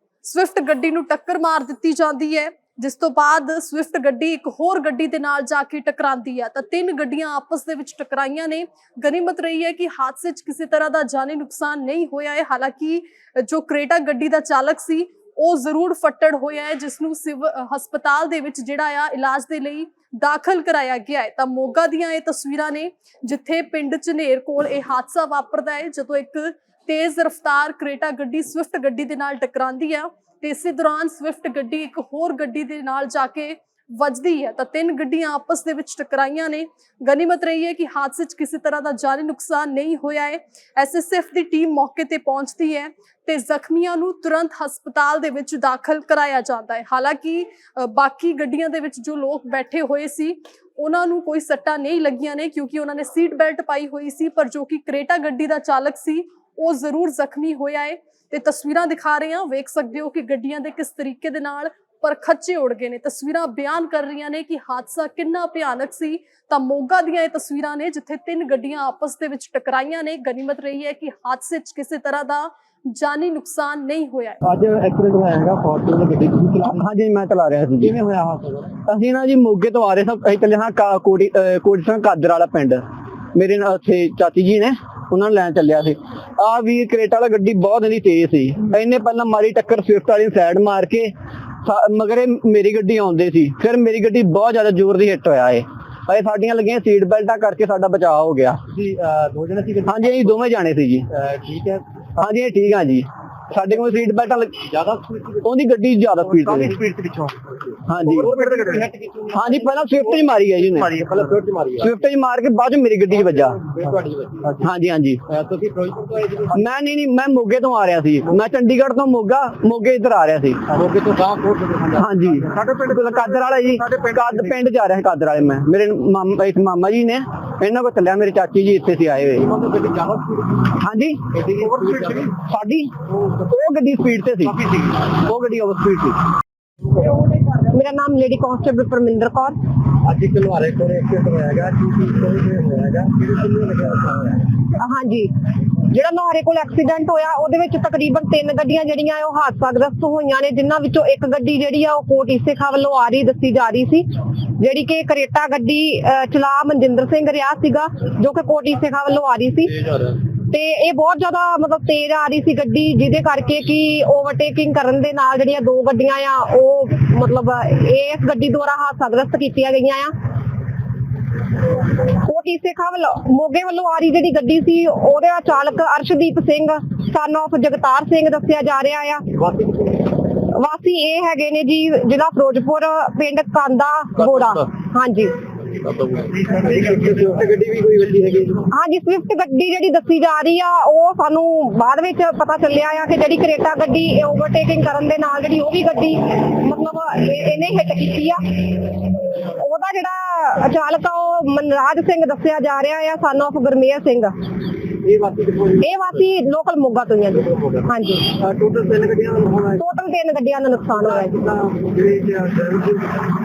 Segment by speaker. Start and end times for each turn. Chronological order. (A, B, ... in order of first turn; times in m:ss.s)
0:00.2-1:14.4 A
1:14.5-1:16.8 B
1:16.6-1:18.0 C
1:17.8-1:18.8 B
1:18.9-1:22.8 C
1:23.4-1:38.6 C
1:38.7-1:40.3 B
1:39.9-1:41.1 C
1:41.1-1:41.8 B
1:42.2-1:44.7 C
1:44.7-1:45.4 B
1:45.4-1:46.8 C
1:46.4-1:49.7 B
1:47.9-1:48.6 C
1:49.3-1:51.0 C
1:50.9-1:51.9 B
1:51.8-1:53.6 C
1:53.1-1:54.6 B
1:54.6-1:55.2 C
1:55.3-1:56.6 B
1:56.5-2:00.6 C
2:00.7-2:02.4 B
2:02.0-2:09.5 C
2:09.4-2:10.7 B
2:10.8-2:11.3 C
2:11.3-2:12.3 B
2:12.1-2:12.9 C
2:13.4-2:16.2 C
2:17.0-2:19.6 D
2:20.0-2:24.5 B
2:24.8-2:50.1 D
2:52.1-2:59.2 D
2:59.4-3:00.2 B
3:00.5-3:05.3 D
3:05.9-3:08.7 B
3:08.7-3:24.4 D
3:25.0-3:26.0 B
3:25.8-3:28.3 D
3:27.4-3:29.8 B
3:29.8-3:31.4 D
3:31.0-3:33.3 B